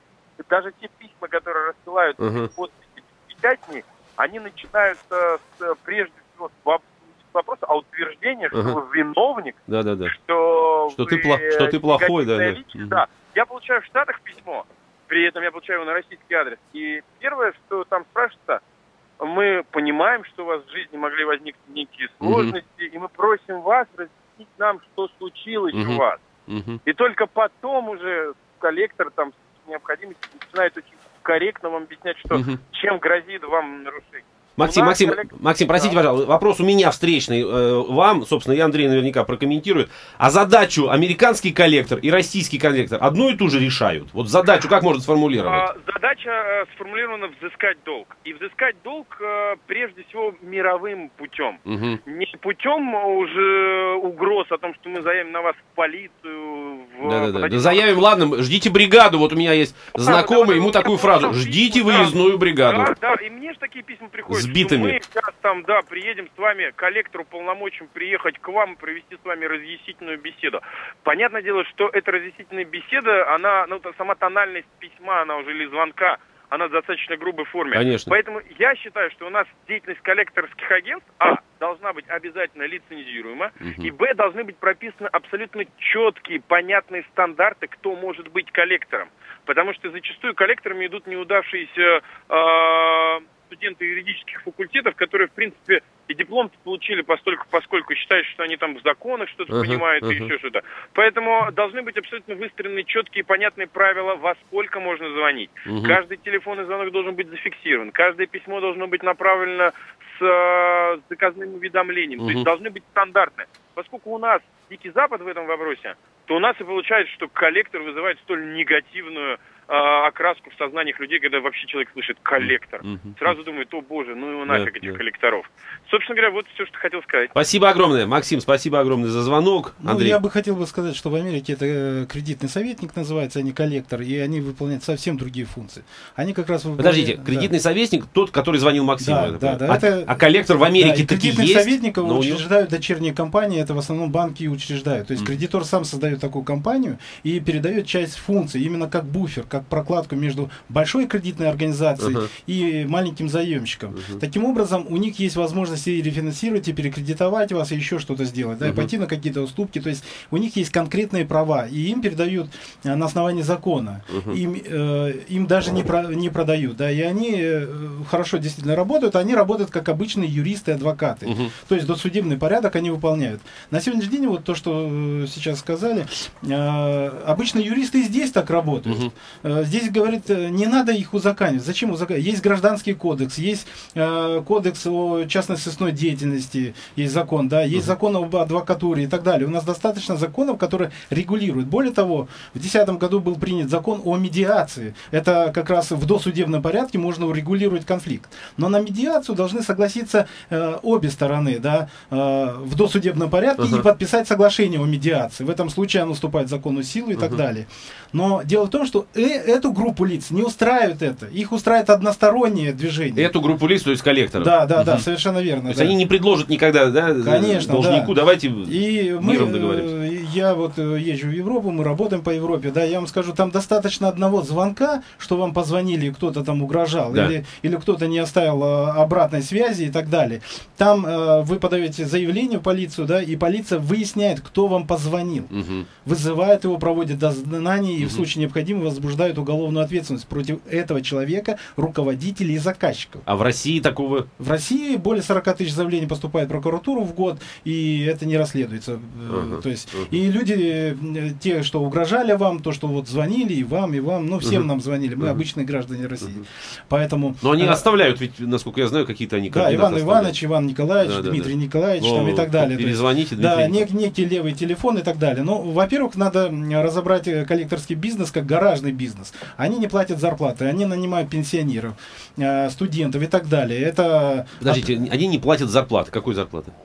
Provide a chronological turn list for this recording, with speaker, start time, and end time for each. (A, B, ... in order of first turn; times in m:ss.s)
0:00.4-0:18.6 A
0:02.2-0:02.5 B
0:08.5-0:08.8 B
0:09.7-0:10.1 B
0:11.0-0:13.0 B
0:19.2-0:26.2 A
0:22.2-0:22.6 B
0:25.7-0:26.8 B
0:26.8-0:36.0 A
0:32.3-0:32.6 B
0:34.6-0:45.6 B
0:45.4-0:57.8 A
0:51.6-0:52.0 B
0:57.0-1:02.9 B
0:59.9-2:07.3 A
1:04.3-1:05.0 B
1:17.7-1:18.1 B
1:23.6-1:23.9 B
1:39.5-1:40.3 B
1:45.6-1:46.0 B
1:52.2-1:52.5 B
2:02.4-2:03.2 B
2:04.5-2:05.0 B
2:07.3-2:10.2 B
2:09.8-2:17.5 C
2:16.8-2:22.4 B
2:19.0-2:20.2 C
2:20.7-3:33.3 C
2:32.0-2:32.3 B
2:33.9-2:34.2 B
2:38.6-2:38.9 B
2:44.1-2:44.4 B
2:51.2-2:51.5 B
2:58.9-2:59.1 B
3:23.6-3:23.8 B
3:33.2-3:35.0 B
3:34.4-3:35.9 C
3:35.7-3:39.9 B
3:37.2-3:38.1 C
3:38.6-3:55.5 C
3:55.5-3:55.9 B
3:56.0-4:03.2 C
4:03.2-4:04.3 B
4:04.4-4:17.8 C
4:09.3-4:10.2 B
4:17.4-4:20.3 B
4:19.5-4:34.9 C
4:21.0-4:23.8 B
4:34.6-4:36.7 B